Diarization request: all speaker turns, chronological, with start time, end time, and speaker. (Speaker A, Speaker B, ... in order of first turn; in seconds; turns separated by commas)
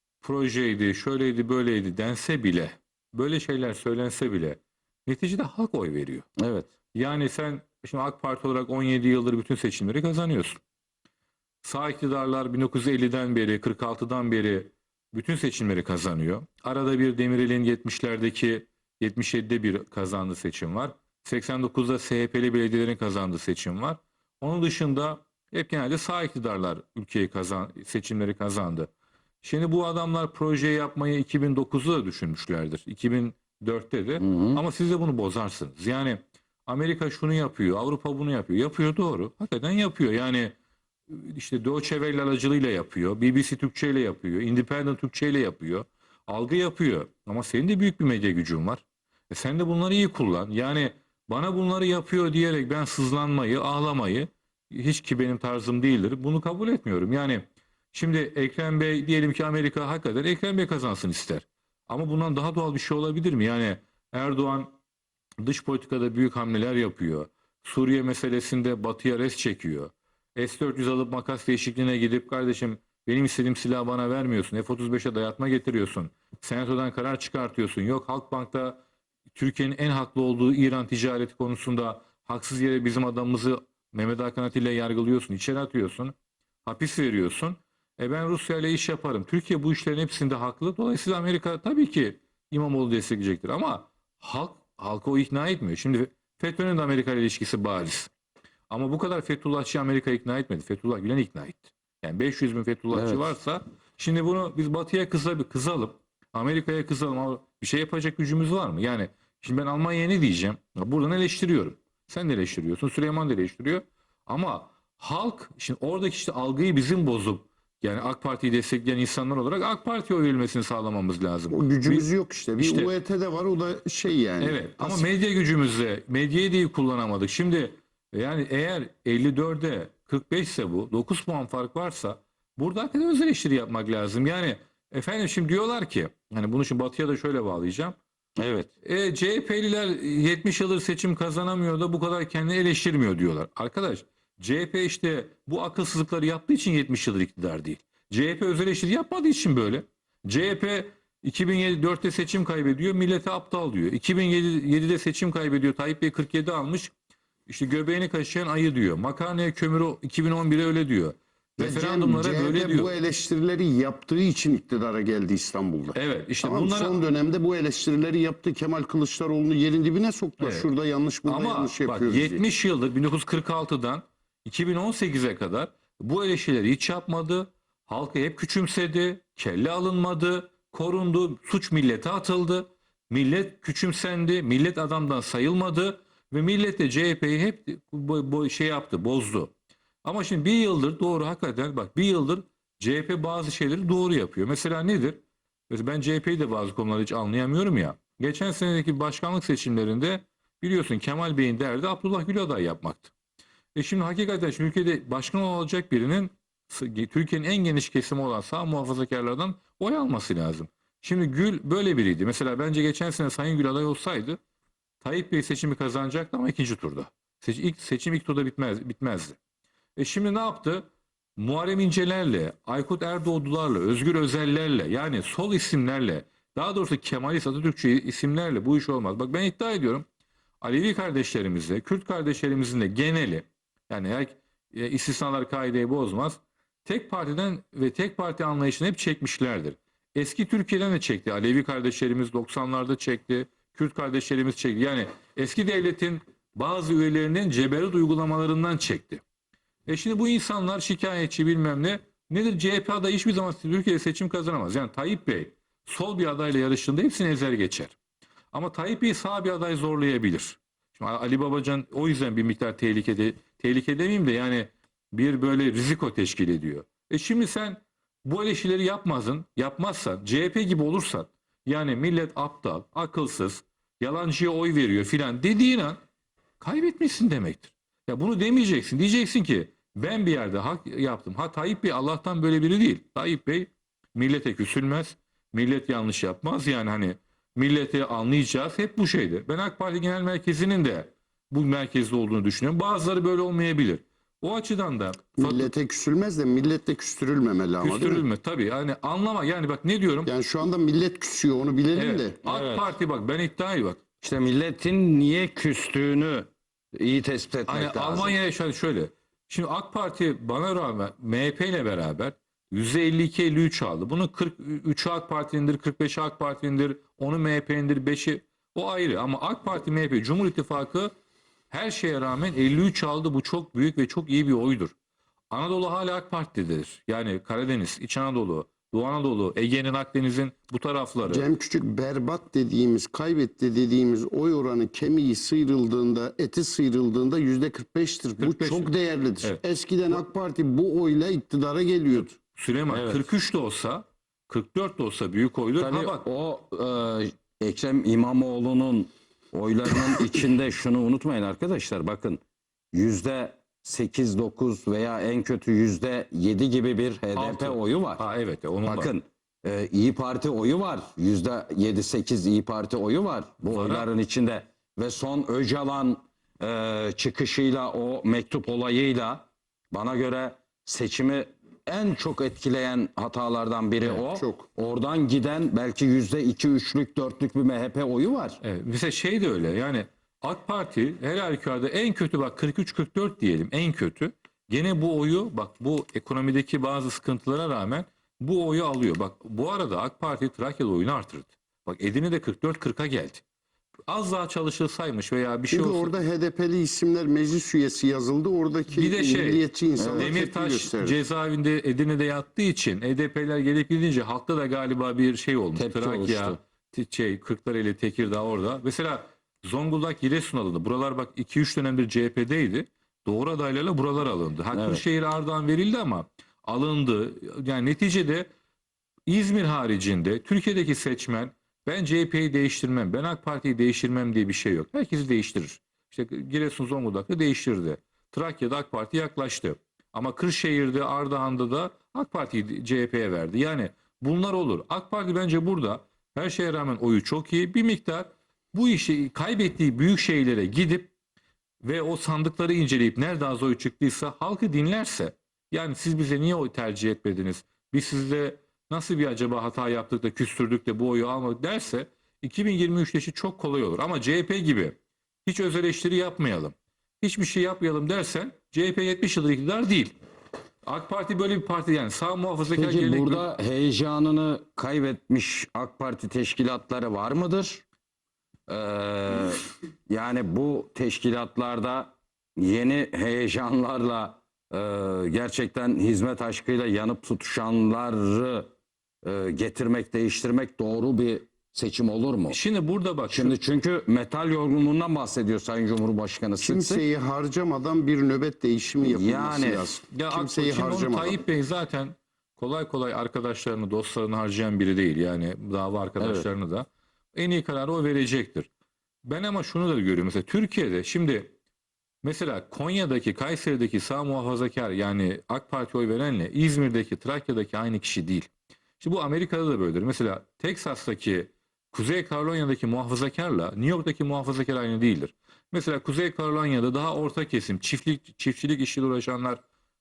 Speaker A: 0.2-6.3, Speaker B: 6.4-6.7, Speaker A: 6.9-10.6, Speaker A: 11.6-28.9, Speaker A: 29.4-40.5, Speaker B: 34.2-34.6, Speaker A: 41.1-64.7, Speaker A: 65.4-86.1, Speaker A: 86.6-98.1, Speaker A: 98.7-122.0, Speaker B: 102.9-103.2, Speaker C: 121.5-125.1, Speaker A: 122.6-122.9, Speaker A: 124.4-137.9, Speaker B: 138.4-138.7, Speaker A: 138.8-156.9, Speaker A: 157.5-162.9, Speaker C: 161.6-172.4, Speaker A: 165.9-167.0, Speaker A: 170.4-170.7, Speaker A: 171.2-189.5, Speaker A: 190.0-203.1, Speaker A: 203.7-214.4, Speaker A: 215.0-219.4, Speaker A: 220.0-230.1, Speaker A: 230.6-249.2, Speaker A: 249.9-257.9, Speaker A: 258.5-276.0, Speaker A: 276.6-295.7, Speaker C: 295.4-298.2, Speaker A: 297.8-300.3, Speaker C: 300.2-302.4, Speaker A: 301.9-304.0, Speaker B: 302.4-302.9, Speaker B: 304.2-308.3, Speaker A: 307.7-321.1, Speaker A: 321.7-324.9, Speaker A: 325.5-331.5, Speaker C: 331.3-342.3, Speaker A: 338.4-338.9, Speaker A: 342.5-346.2, Speaker B: 342.9-343.2, Speaker B: 345.8-352.4, Speaker B: 352.9-358.2, Speaker A: 357.3-359.1, Speaker B: 358.9-378.6, Speaker A: 363.6-364.1, Speaker C: 374.4-374.6, Speaker A: 378.6-393.4, Speaker A: 394.1-396.1, Speaker C: 395.7-401.2, Speaker A: 398.9-418.5, Speaker B: 399.9-400.3, Speaker B: 405.8-406.6, Speaker B: 414.7-415.0, Speaker A: 419.3-441.1, Speaker A: 441.8-460.1, Speaker A: 460.8-463.4, Speaker B: 462.7-467.8, Speaker B: 468.7-478.7, Speaker B: 479.2-482.6, Speaker A: 482.5-483.6, Speaker B: 483.3-487.0, Speaker C: 486.6-491.4, Speaker B: 489.0-489.9, Speaker A: 490.1-498.7, Speaker B: 496.2-496.5, Speaker A: 499.2-501.5, Speaker A: 502.2-508.5, Speaker A: 509.0-519.6